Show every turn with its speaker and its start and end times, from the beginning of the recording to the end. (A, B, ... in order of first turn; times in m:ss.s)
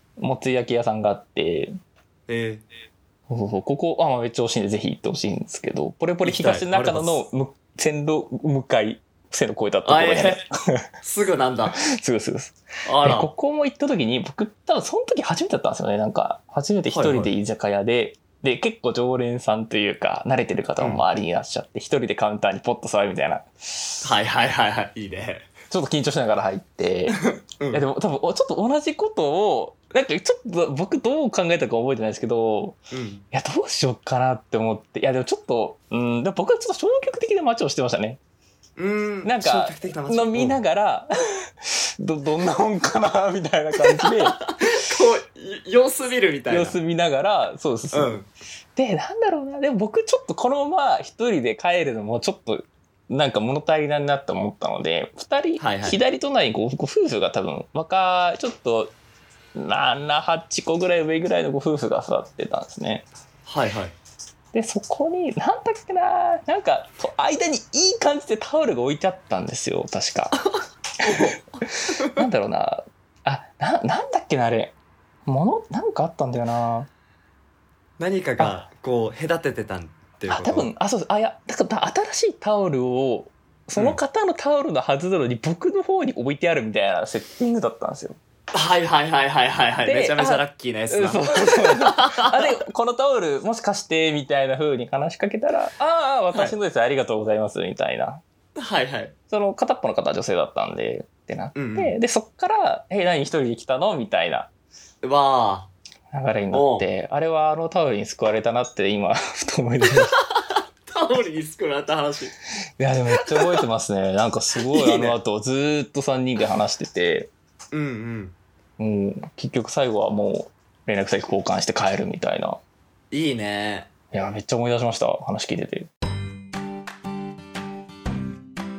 0:00.2-0:01.8 A
0:02.3-0:02.6 B
0:03.3-0:10.9 A
0:06.2-0:07.2 B
0:09.8-0:10.4 B
0:11.0-0:11.8 B
0:11.8-0:24.1 A
0:12.8-0:13.3 B
0:16.9-0:17.3 B
0:24.0-0:25.5 B
0:25.7-0:32.8 A
0:27.2-0:27.8 B
0:32.9-0:33.2 B
0:33.3-0:38.2 A
0:38.8-0:40.6 B
0:39.2-0:44.8 A
0:43.9-0:46.8 B
0:46.5-0:48.2 A
0:47.9-0:48.3 B
0:48.8-0:58.9 A
0:55.6-0:56.0 B
0:59.6-1:03.1 A
1:03.4-1:03.9 B
1:04.5-1:10.4 A
1:11.0-1:14.8 A
1:11.0-1:12.1 B
1:15.3-1:16.9 A
1:18.0-1:20.7 B
1:20.3-1:28.2 A
1:28.5-1:32.5 B
1:29.8-1:38.2 A
1:38.6-1:39.1 B
1:39.3-1:44.5 A
1:41.6-1:41.9 B
1:45.0-1:45.7 B
1:46.1-1:50.2 A
1:46.5-1:46.9 B
1:50.2-1:52.3 B
1:52.8-1:57.3 A
1:53.1-1:53.6 B
1:54.6-1:55.2 B
1:57.7-1:58.4 B
1:58.8-2:02.6 A
2:03.1-2:03.9 B
2:04.1-2:05.9 A